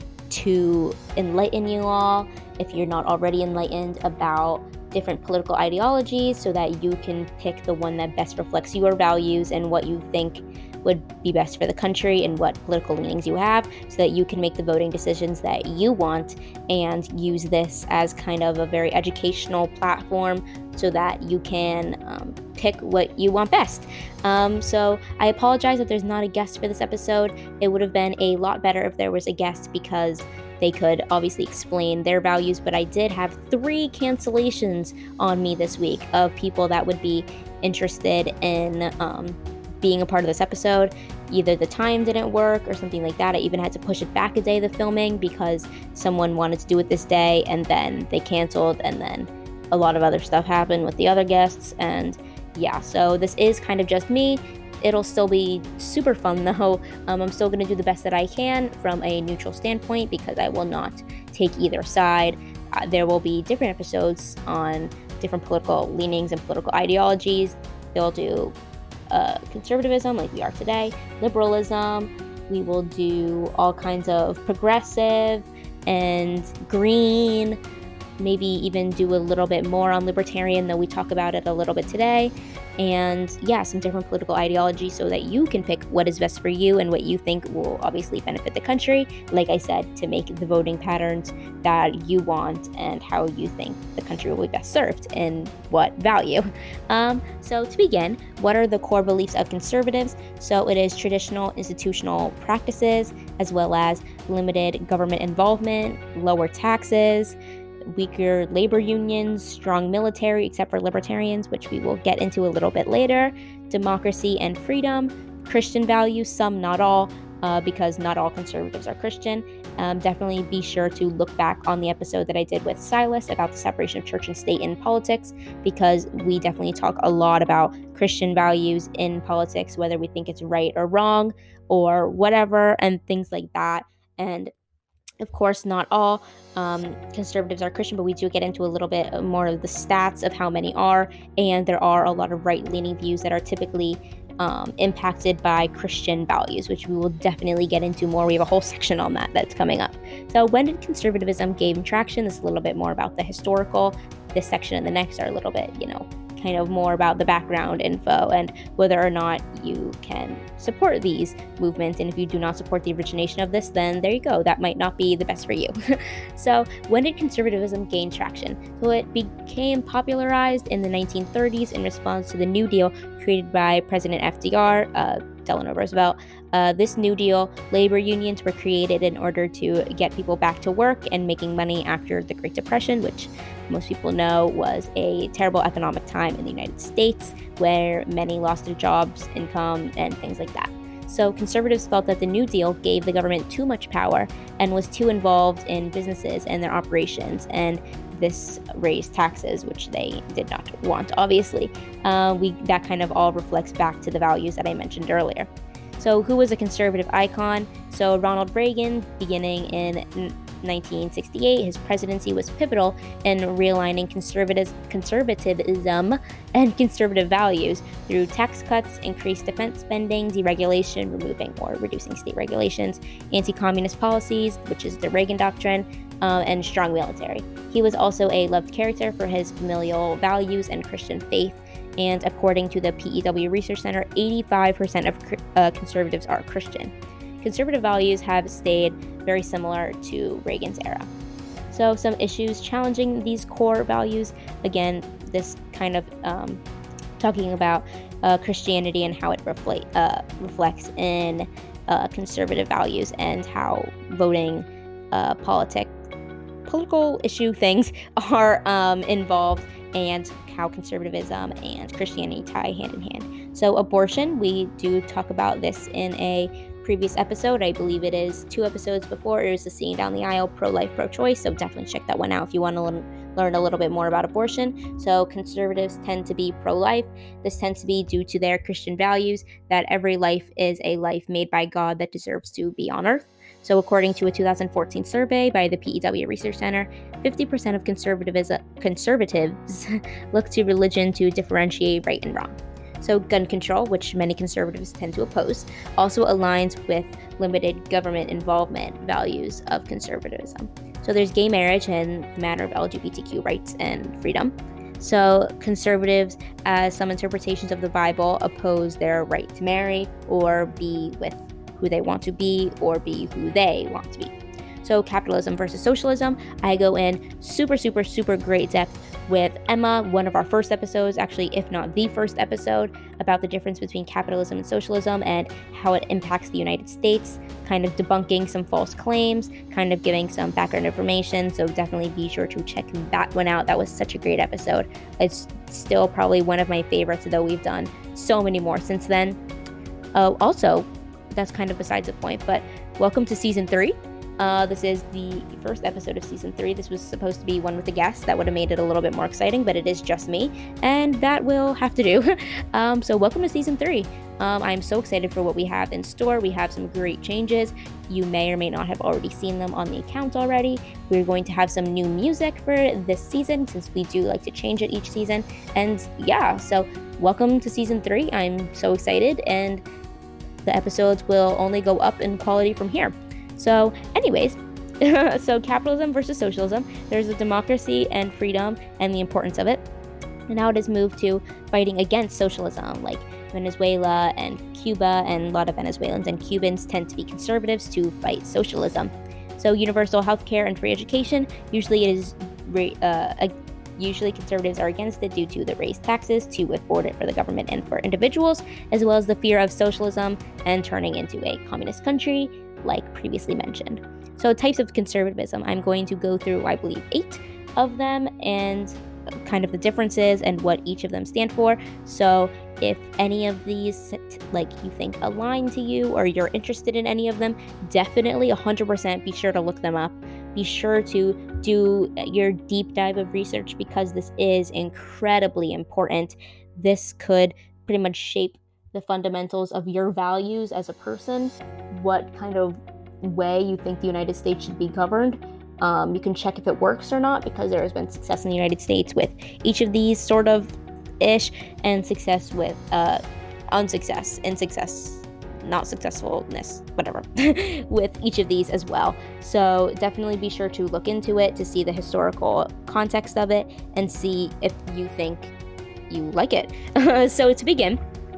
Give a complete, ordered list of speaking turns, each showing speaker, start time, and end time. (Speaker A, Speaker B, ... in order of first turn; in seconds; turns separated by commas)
Speaker A: 0.3-68.5, Speaker A: 69.1-77.6, Speaker A: 78.2-107.4, Speaker A: 107.9-134.5, Speaker A: 135.2-241.1, Speaker A: 241.7-246.6, Speaker A: 247.2-255.9, Speaker A: 256.7-339.4, Speaker A: 340.1-369.8, Speaker A: 370.6-379.8, Speaker A: 380.5-443.2, Speaker A: 443.7-455.5, Speaker A: 456.1-458.0